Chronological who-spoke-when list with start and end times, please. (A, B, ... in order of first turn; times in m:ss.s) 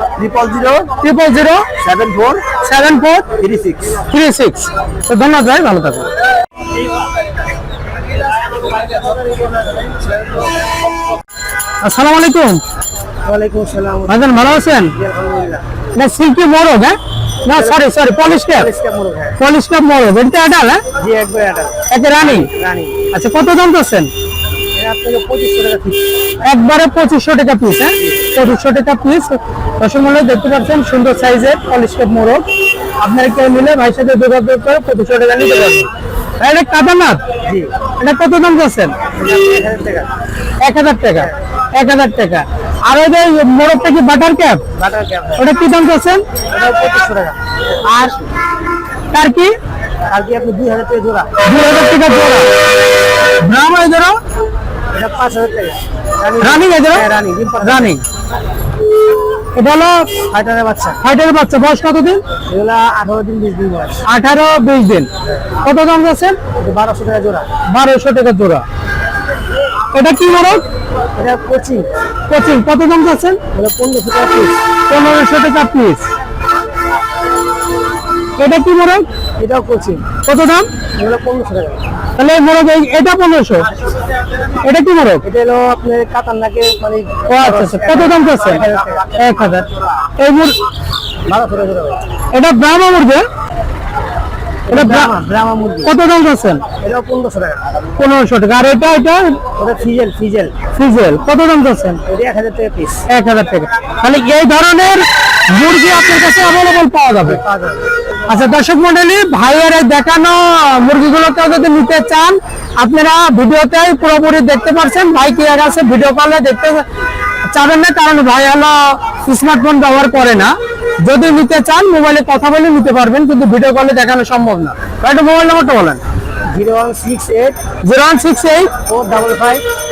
0:00.2-0:00.8 A
0:01.0-0:01.6 B
0:01.8-0:02.4 A
0:02.6-0:03.2 B
0:03.4-0:03.8 A
0:04.1-0:06.1 B
0:11.8-0:12.6 B
0:13.2-0:14.2 C
0:14.1-0:14.9 B
0:15.0-0:15.6 C
0:16.0-0:18.7 B
0:18.6-0:19.3 C
0:19.4-0:20.8 B
0:21.0-0:21.7 C
0:21.9-0:22.5 B
0:22.3-0:22.9 C
0:23.1-0:24.1 B
0:24.7-0:26.0 C
0:26.4-0:32.4 B
0:33.0-0:37.2 B
0:38.0-0:38.9 B
0:39.2-0:40.1 C
0:40.6-0:44.6 B
0:44.8-0:45.4 C
0:45.4-0:46.2 B
0:46.5-0:47.4 C
0:47.9-0:48.2 A
0:49.1-0:49.5 B
0:50.1-0:51.3 C
0:51.5-0:52.5 B
0:53.4-0:54.2 B
0:54.9-0:57.8 C
0:56.4-0:57.1 B
0:57.6-0:58.0 B
0:59.5-1:00.1 B
1:00.3-1:01.0 C
1:01.0-1:02.2 B
1:02.5-1:04.0 C
1:04.0-1:05.1 B
1:05.6-1:06.4 B
1:06.6-1:07.5 C
1:07.7-1:08.6 B
1:09.9-1:10.6 B
1:11.2-1:11.8 C
1:12.3-1:13.4 B
1:13.5-1:14.5 C
1:14.9-1:16.0 B
1:18.4-1:19.0 B
1:19.4-1:20.0 C
1:20.2-1:20.7 B
1:21.0-1:21.8 C
1:22.2-1:23.7 B
1:24.6-1:25.2 B
1:25.3-1:29.0 C
1:27.3-1:28.6 B
1:29.1-1:29.6 B
1:30.2-1:30.6 B
1:31.3-1:32.0 C
1:32.3-1:33.2 B
1:34.7-1:35.1 B
1:34.8-1:35.9 C
1:35.8-1:36.6 B
1:36.8-1:37.6 C
1:38.0-1:39.4 B
1:39.6-1:40.5 C
1:40.8-1:42.0 B
1:42.1-1:43.0 C
1:43.1-1:47.4 B
1:47.4-1:47.8 C
1:48.3-1:56.8 B
1:57.5-2:06.0 B
2:06.5-2:07.6 C
2:07.8-2:08.7 B
2:08.9-2:09.6 C